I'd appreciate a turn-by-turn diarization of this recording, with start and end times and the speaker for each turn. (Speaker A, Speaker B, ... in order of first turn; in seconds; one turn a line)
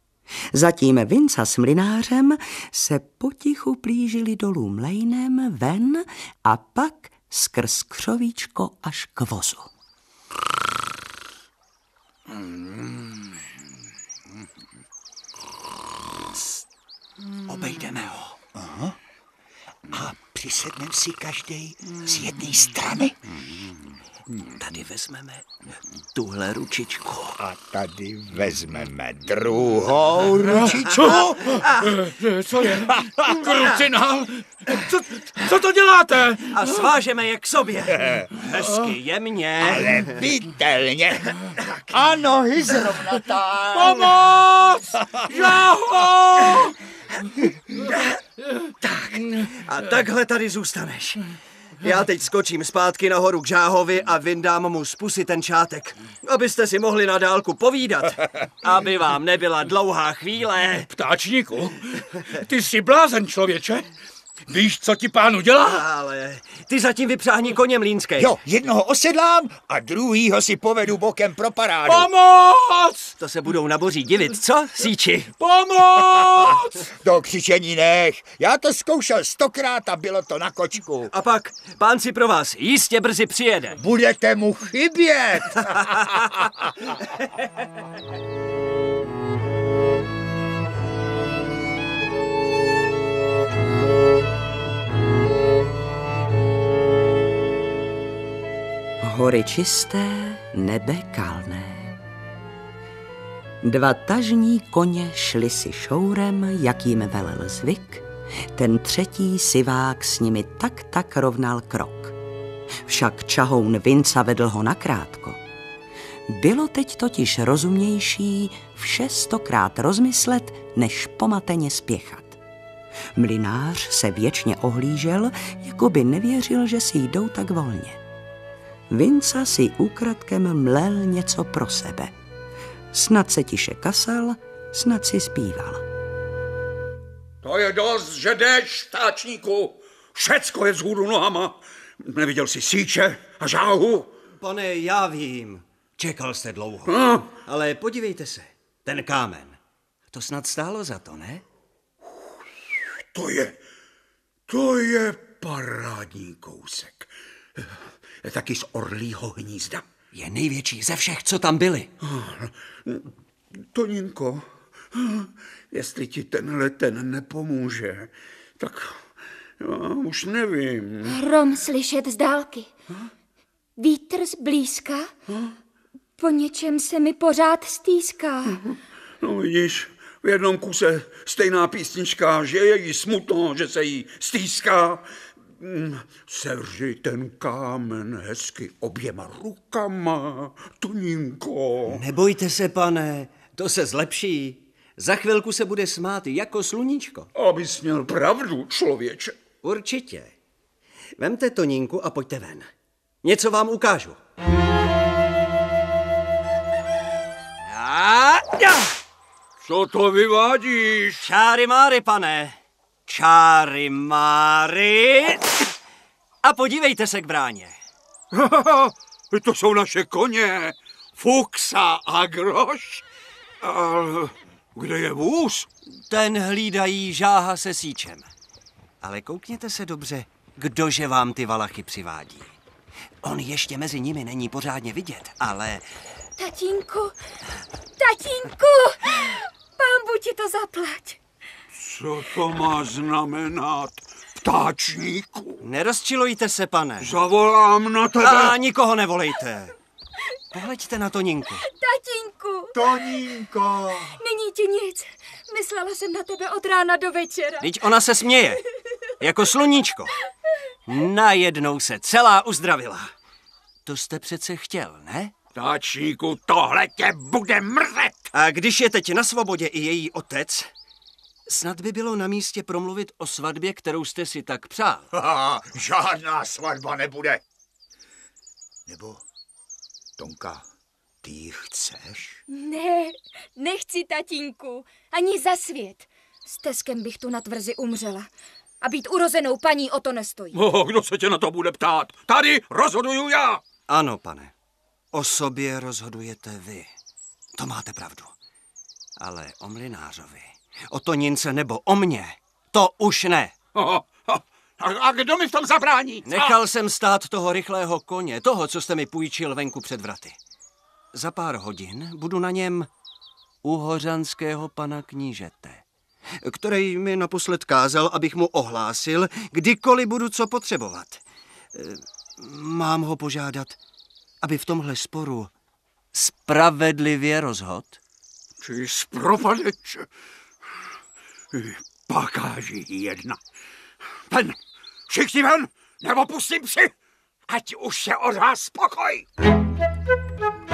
Speaker A: 0.5-9.7
Speaker B: 12.3-13.4
Speaker C: 17.5-18.4
Speaker D: 18.5-19.0
Speaker D: 19.9-23.2
Speaker C: 24.6-25.5
Speaker C: 26.1-27.4
Speaker D: 27.4-31.2
Speaker E: 30.4-36.6
Speaker C: 30.9-32.0
Speaker D: 32.9-33.3
Speaker C: 33.5-33.8
Speaker C: 36.5-40.2
Speaker D: 37.9-38.4
Speaker D: 39.6-44.1
Speaker E: 43.8-44.1
Speaker B: 44.1-46.7
Speaker C: 49.2-60.9
Speaker E: 60.8-63.9
Speaker E: 64.5-65.8
Speaker C: 65.6-68.4
Speaker D: 68.2-72.1
Speaker E: 71.8-73.1
Speaker C: 73.2-75.3
Speaker E: 75.4-76.3
Speaker D: 76.6-81.1
Speaker C: 81.1-83.8
Speaker D: 83.8-86.4
Speaker A: 99.0-102.0
Speaker A: 103.6-112.1
Speaker A: 112.8-115.4
Speaker A: 116.3-122.4
Speaker A: 123.1-128.0
Speaker A: 128.9-132.1
Speaker A: 132.9-135.8
Speaker B: 137.4-144.1
Speaker C: 144.4-149.6
Speaker B: 146.9-147.3
Speaker C: 150.1-151.4
Speaker B: 153.1-153.6
Speaker B: 154.5-159.8
Speaker C: 160.1-161.9
Speaker B: 162.0-163.1
Speaker B: 163.7-169.0
Speaker B: 169.6-171.2
Speaker F: 171.0-172.7
Speaker F: 173.8-175.1
Speaker F: 176.2-178.6
Speaker B: 178.5-185.0
Speaker B: 185.6-192.0
Speaker C: 191.9-197.3
Speaker B: 197.3-199.3
Speaker C: 199.6-200.3
Speaker C: 201.2-202.7
Speaker C: 203.2-204.2
Speaker C: 207.7-208.9
Speaker B: 209.6-211.2
Speaker C: 211.2-215.5
Speaker C: 216.4-217.8
Speaker B: 218.3-223.0
Speaker B: 223.6-225.7
Speaker C: 226.1-228.3
Speaker C: 229.0-232.5
Speaker C: 233.2-235.8
Speaker F: 236.4-237.1
Speaker F: 238.0-241.2
Speaker B: 241.7-245.6
Speaker C: 245.6-247.1
Speaker B: 247.0-248.6
Speaker C: 248.2-249.7
Speaker C: 250.5-251.7
Speaker F: 251.6-253.4
Speaker D: 252.7-254.2
Speaker F: 254.1-257.7
Speaker C: 257.6-258.6
Speaker C: 259.2-260.1
Speaker C: 260.9-263.1
Speaker C: 263.9-265.3
Speaker B: 265.5-268.3
Speaker C: 268.3-270.7
Speaker C: 271.5-275.1
Speaker D: 275.1-277.4
Speaker D: 278.9-279.2
Speaker D: 280.2-280.6
Speaker D: 281.2-282.4
Speaker F: 282.5-288.3
Speaker F: 288.8-290.6
Speaker B: 290.5-293.6
Speaker C: 293.9-294.5
Speaker C: 295.1-296.9
Speaker C: 297.6-298.3
Speaker C: 299.2-303.5
Speaker B: 303.7-306.5
Speaker C: 306.2-310.4
Speaker C: 311.1-312.9
Speaker C: 313.6-315.8
Speaker C: 316.4-321.2
Speaker C: 321.7-323.8
Speaker C: 324.4-325.5
Speaker C: 326.1-328.0
Speaker B: 328.6-330.1
Speaker B: 331.5-333.4
Speaker B: 334.3-334.6
Speaker B: 335.1-336.9
Speaker B: 337.5-339.3